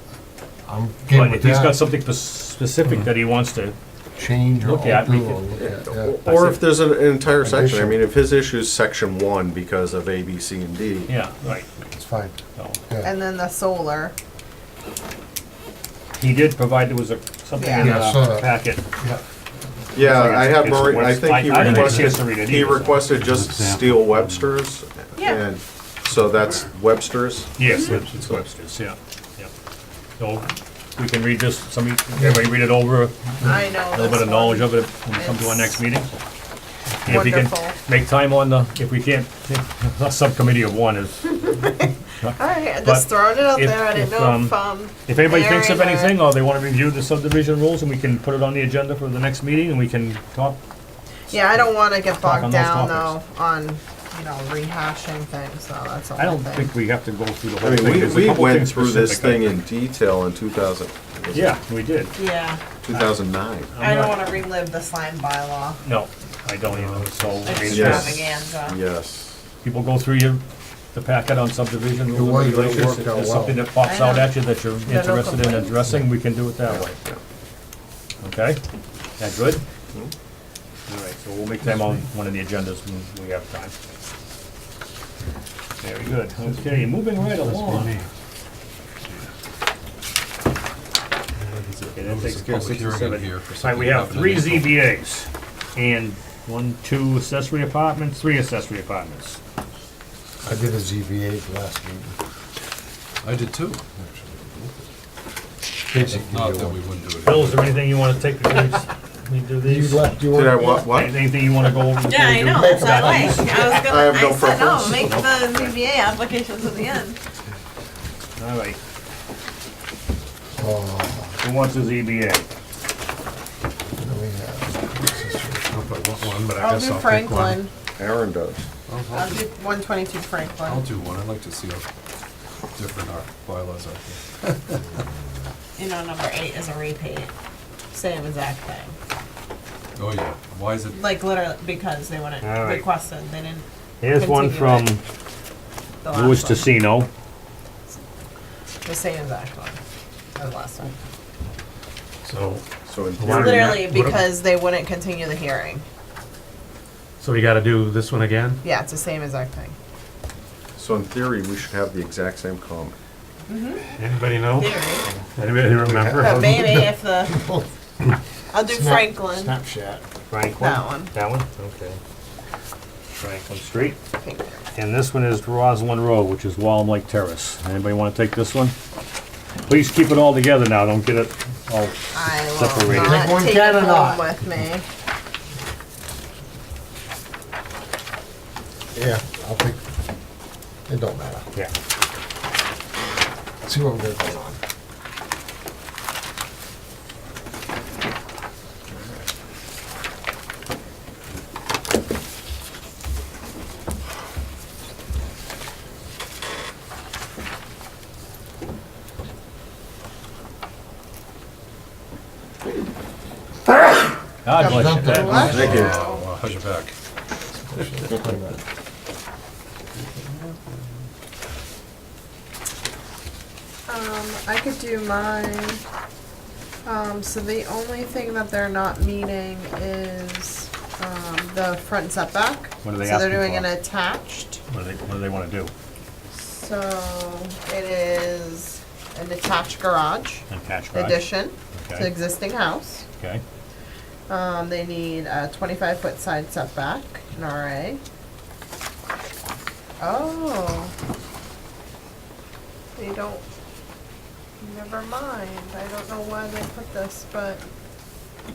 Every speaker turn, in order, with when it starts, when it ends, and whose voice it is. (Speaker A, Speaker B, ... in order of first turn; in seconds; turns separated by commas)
Speaker A: 0.6-1.8, Speaker B: 1.1-3.8, Speaker A: 4.2-6.2, Speaker B: 4.6-5.5, Speaker C: 5.6-11.1, Speaker B: 6.2-6.7, Speaker A: 7.4-8.0, Speaker B: 11.1-11.7, Speaker A: 11.9-12.4, Speaker D: 13.0-14.1, Speaker B: 16.2-18.8, Speaker D: 17.6-18.0, Speaker A: 17.8-19.2, Speaker C: 19.9-27.5, Speaker B: 20.0-23.1, Speaker D: 25.1-25.4, Speaker B: 27.6-29.5, Speaker D: 27.6-28.0, Speaker B: 30.2-36.1, Speaker D: 33.4-35.8, Speaker D: 37.0-37.8, Speaker B: 37.0-41.3, Speaker D: 41.3-46.2, Speaker B: 42.2-44.5, Speaker B: 45.0-50.6, Speaker D: 51.3-56.7, Speaker B: 51.5-53.1, Speaker B: 56.2-59.6, Speaker C: 57.6-61.5, Speaker B: 61.3-62.1, Speaker D: 62.1-62.7, Speaker C: 62.8-63.7, Speaker B: 62.9-63.2, Speaker B: 63.7-64.2, Speaker D: 63.8-65.8, Speaker B: 65.8-68.2, Speaker E: 66.8-67.8, Speaker D: 67.4-68.8, Speaker C: 67.7-69.4, Speaker B: 69.6-70.4, Speaker B: 70.9-76.9, Speaker A: 72.1-73.7, Speaker D: 73.8-75.8, Speaker C: 76.6-77.2, Speaker B: 78.2-78.6, Speaker B: 79.2-79.6, Speaker B: 80.9-83.7, Speaker B: 85.8-88.0, Speaker E: 87.5-87.9, Speaker E: 91.8-94.7, Speaker B: 91.9-99.4, Speaker A: 100.4-102.1, Speaker E: 103.2-104.4, Speaker A: 105.9-106.8, Speaker E: 106.0-107.7, Speaker B: 107.2-110.1, Speaker A: 109.6-110.9, Speaker C: 110.3-111.2, Speaker B: 110.8-113.9, Speaker D: 112.0-117.2, Speaker A: 112.5-113.5, Speaker C: 113.8-115.3, Speaker B: 114.9-115.7, Speaker B: 118.4-118.8, Speaker A: 120.6-121.3, Speaker B: 121.4-122.5, Speaker A: 124.0-126.3, Speaker E: 125.7-126.9, Speaker D: 126.5-127.7, Speaker C: 128.0-128.6, Speaker E: 128.9-129.4, Speaker D: 129.1-130.9, Speaker E: 130.7-131.8, Speaker E: 132.7-134.8, Speaker D: 135.8-137.3, Speaker D: 137.9-138.9, Speaker E: 139.9-140.9, Speaker D: 140.9-144.9, Speaker B: 142.4-142.9, Speaker B: 144.0-145.0, Speaker D: 146.0-146.8, Speaker B: 146.1-147.1, Speaker D: 148.8-149.8, Speaker D: 150.3-150.9, Speaker B: 152.2-152.6, Speaker C: 152.8-153.9, Speaker B: 153.2-154.2, Speaker D: 153.3-155.8, Speaker B: 157.2-158.6, Speaker D: 158.6-159.7, Speaker C: 160.8-162.9, Speaker D: 163.5-163.9, Speaker B: 163.9-164.8, Speaker D: 164.5-165.1, Speaker B: 165.3-166.7, Speaker A: 165.7-167.7, Speaker D: 166.2-167.5, Speaker D: 168.5-169.6, Speaker A: 168.7-170.0, Speaker B: 170.3-172.0, Speaker D: 170.5-171.1, Speaker B: 173.2-174.0, Speaker D: 174.1-174.6, Speaker B: 174.7-178.7, Speaker B: 179.7-183.3, Speaker D: 182.1-184.8, Speaker A: 182.9-184.3, Speaker A: 188.9-189.8, Speaker A: 190.9-191.5, Speaker A: 193.6-194.6, Speaker B: 214.4-215.7, Speaker D: 214.6-216.2, Speaker A: 214.6-215.8, Speaker E: 214.9-216.9, Speaker C: 215.5-215.9, Speaker A: 217.7-218.6, Speaker D: 223.9-225.8, Speaker D: 226.8-234.6, Speaker B: 232.8-233.6, Speaker B: 234.7-235.7, Speaker D: 236.3-243.1, Speaker B: 240.5-241.2, Speaker B: 241.7-242.1, Speaker D: 244.3-248.0, Speaker D: 250.0-250.9, Speaker D: 252.9-253.4, Speaker D: 254.6-257.6